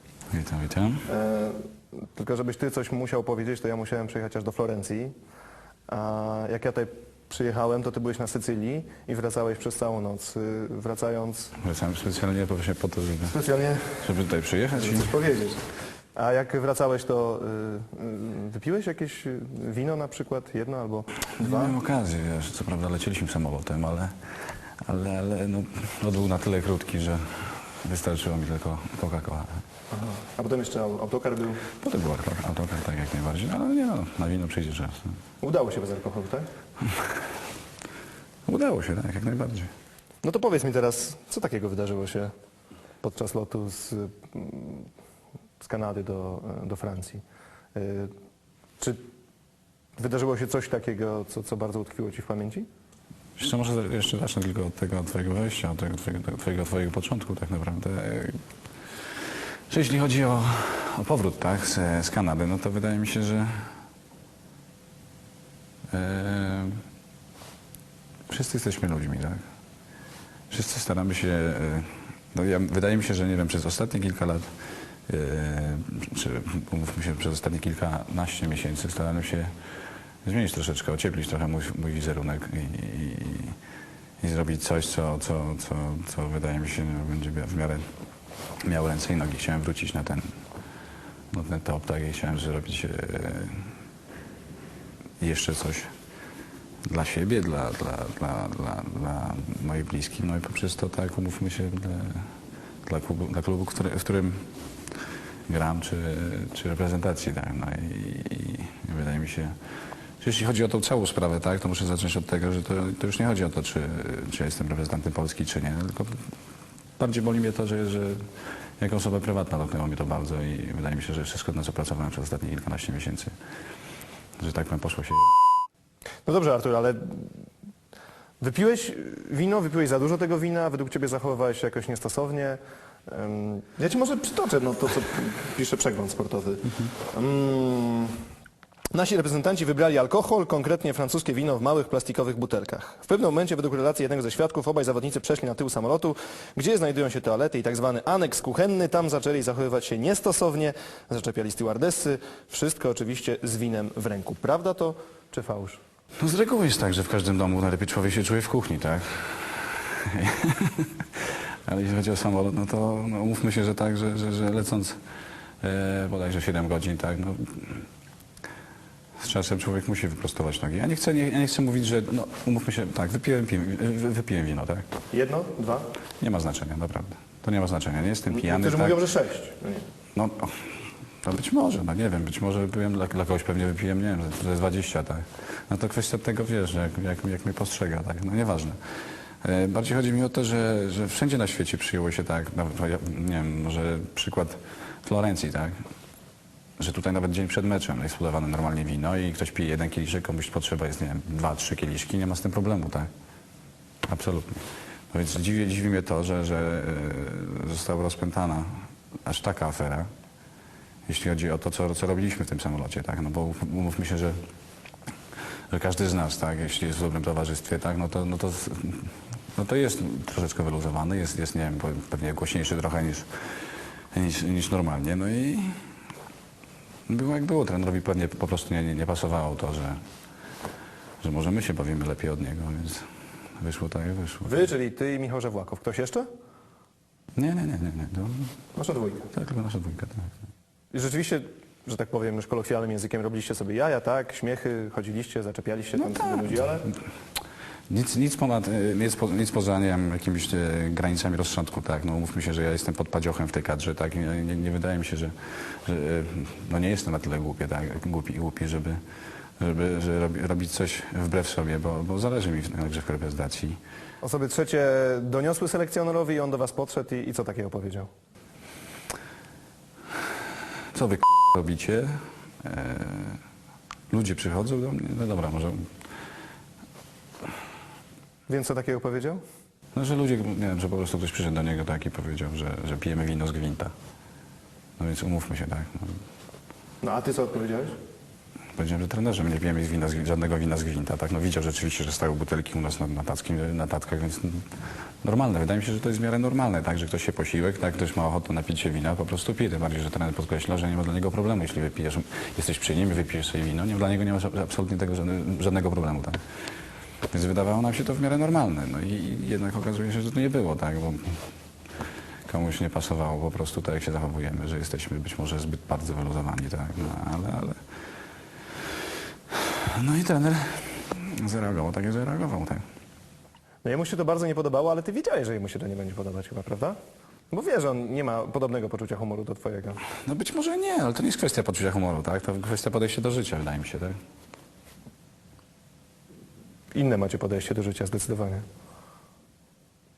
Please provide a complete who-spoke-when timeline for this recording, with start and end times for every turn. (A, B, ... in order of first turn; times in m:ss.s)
0:00.3-0:01.0 A
0:01.0-0:05.1 B
0:05.9-0:11.6 B
0:11.6-0:13.4 A
0:13.3-0:14.0 B
0:14.0-0:15.1 A
0:14.8-0:15.6 B
0:16.1-0:21.8 B
0:21.4-0:24.1 A
0:24.8-0:29.6 A
0:29.9-0:31.6 B
0:31.8-0:35.1 A
0:35.4-0:36.5 B
0:38.5-0:39.7 A
0:40.2-0:42.3 B
0:43.0-0:44.9 B
0:45.6-0:47.2 B
0:47.8-0:48.1 B
0:48.8-0:49.0 B
0:50.0-0:52.7 B
0:53.4-0:58.4 A
0:59.7-1:03.7 A
1:05.9-1:06.8 A
1:08.3-1:09.4 A
1:10.5-1:14.5 A
1:15.1-1:19.5 A
1:20.2-1:23.6 A
1:24.2-1:27.9 A
1:28.6-1:30.3 A
1:31.3-1:33.7 A
1:35.2-1:35.9 A
1:36.9-1:42.3 A
1:42.8-1:44.5 A
1:45.5-1:49.5 A
1:50.2-1:56.3 A
1:57.0-2:03.3 A
2:04.4-2:05.3 A
2:06.2-2:07.3 B
2:08.4-2:18.2 B
2:18.9-2:35.8 B
2:36.2-2:45.0 A
2:45.6-2:47.9 A
2:49.2-2:54.9 A
2:55.1-2:55.9 B
2:56.2-2:59.0 A
2:58.3-2:59.9 B
3:00.2-3:08.8 A
3:09.4-3:15.8 A
3:16.8-3:23.1 A
3:24.1-3:30.1 A
3:31.1-3:34.4 A
3:35.7-3:45.8 A
3:47.1-3:50.0 A
3:51.2-3:53.1 A
3:53.6-3:54.7 A
3:54.4-3:56.3 B
3:57.4-3:58.5 A
3:58.8-3:59.3 B
3:59.3-4:00.3 A
4:00.9-4:06.9 B
4:06.0-4:06.6 A
4:07.9-4:19.0 A
4:19.6-4:23.8 A
4:24.2-4:28.1 B
4:30.9-4:33.4 A
4:34.1-4:35.9 A
4:38.5-4:39.4 B
4:39.9-4:43.9 A
4:45.0-4:46.2 A
4:47.0-4:48.0 B
4:48.8-4:54.7 A
4:55.2-5:06.4 A
5:07.3-5:11.4 A
5:12.5-5:17.8 A
5:19.5-5:22.8 A
5:23.8-5:27.0 B
5:27.5-5:30.0 B
5:30.2-5:34.2 A
5:36.9-5:38.6 B